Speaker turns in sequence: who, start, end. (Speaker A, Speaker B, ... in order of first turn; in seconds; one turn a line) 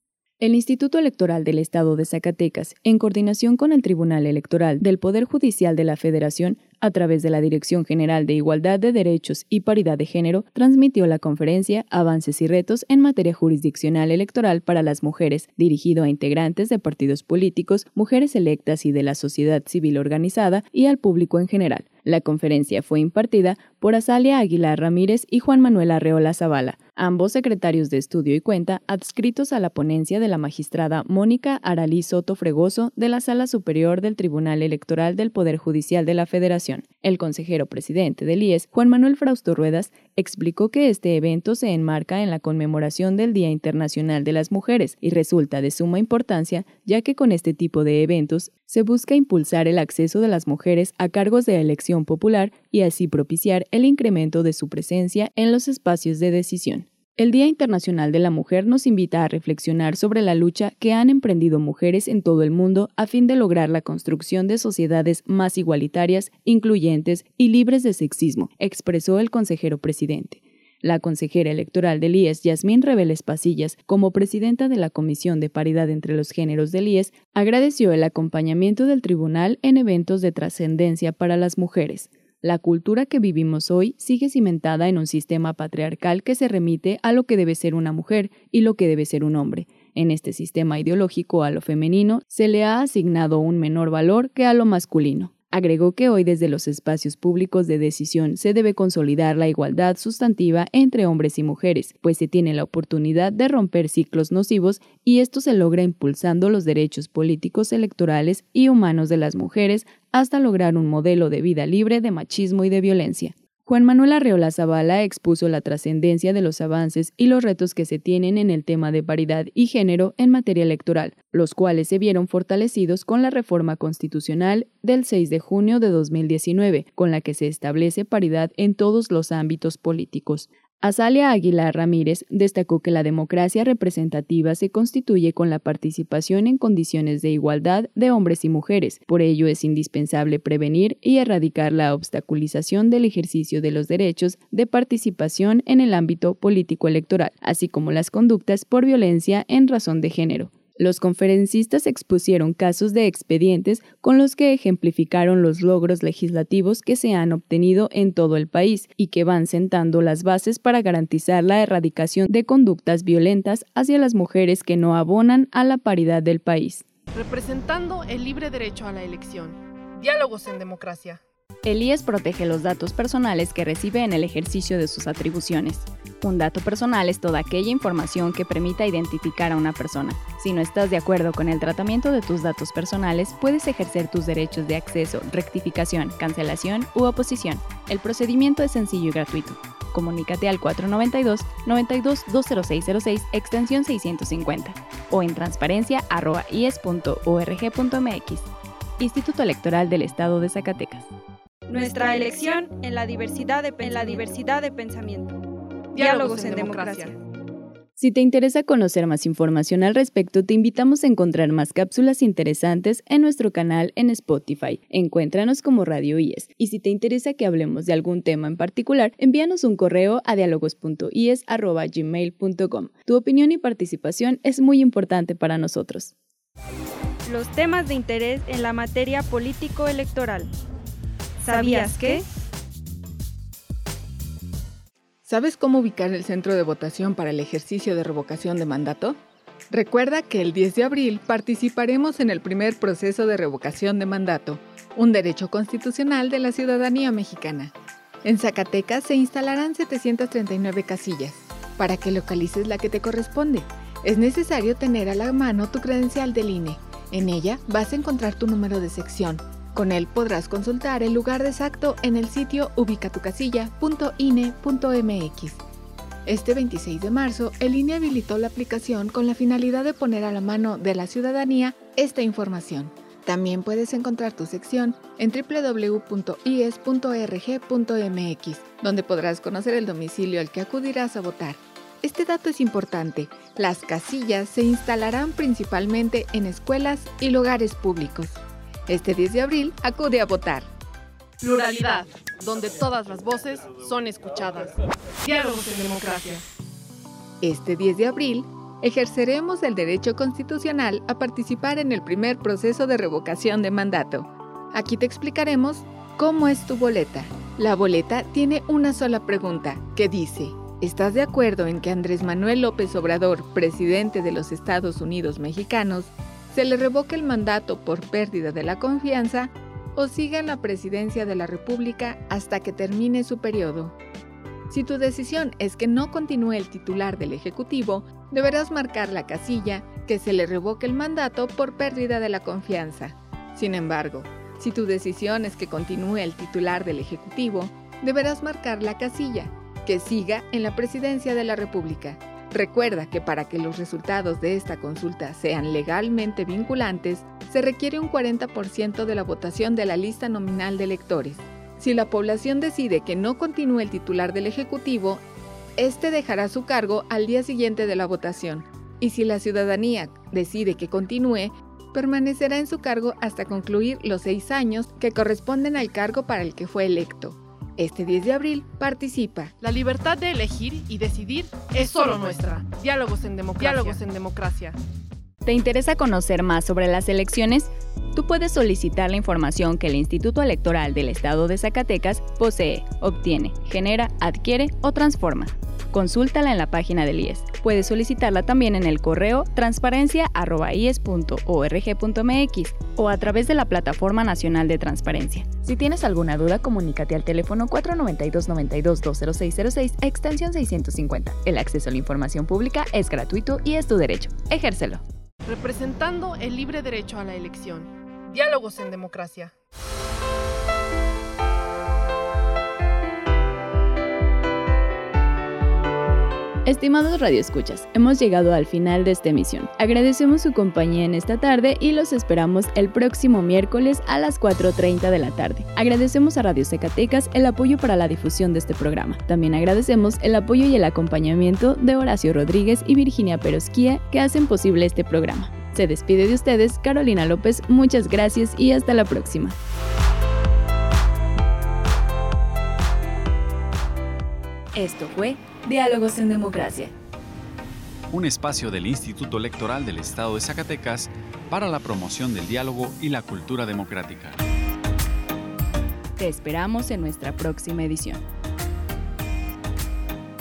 Speaker A: 0.4-166.8
Speaker B: 167.1-171.2
Speaker A: 171.6-201.1
Speaker C: 201.7-205.3
Speaker B: 205.9-207.2
Speaker C: 205.9-207.2
Speaker A: 208.0-226.1
Speaker C: 227.2-230.5
Speaker C: 231.4-232.3
Speaker D: 235.2-239.2
Speaker D: 239.7-247.7
Speaker D: 248.2-265.6
Speaker D: 266.2-290.7
Speaker B: 291.4-296.4
Speaker D: 297.4-323.9
Speaker D: 324.7-355.2
Speaker D: 355.8-369.5
Speaker B: 369.6-374.8
Speaker A: 375.4-405.0
Speaker B: 405.4-409.5
Speaker A: 416.6-439.6
Speaker A: 444.7-446.9
Speaker E: 448.1-454.4
Speaker A: 456.2-458.2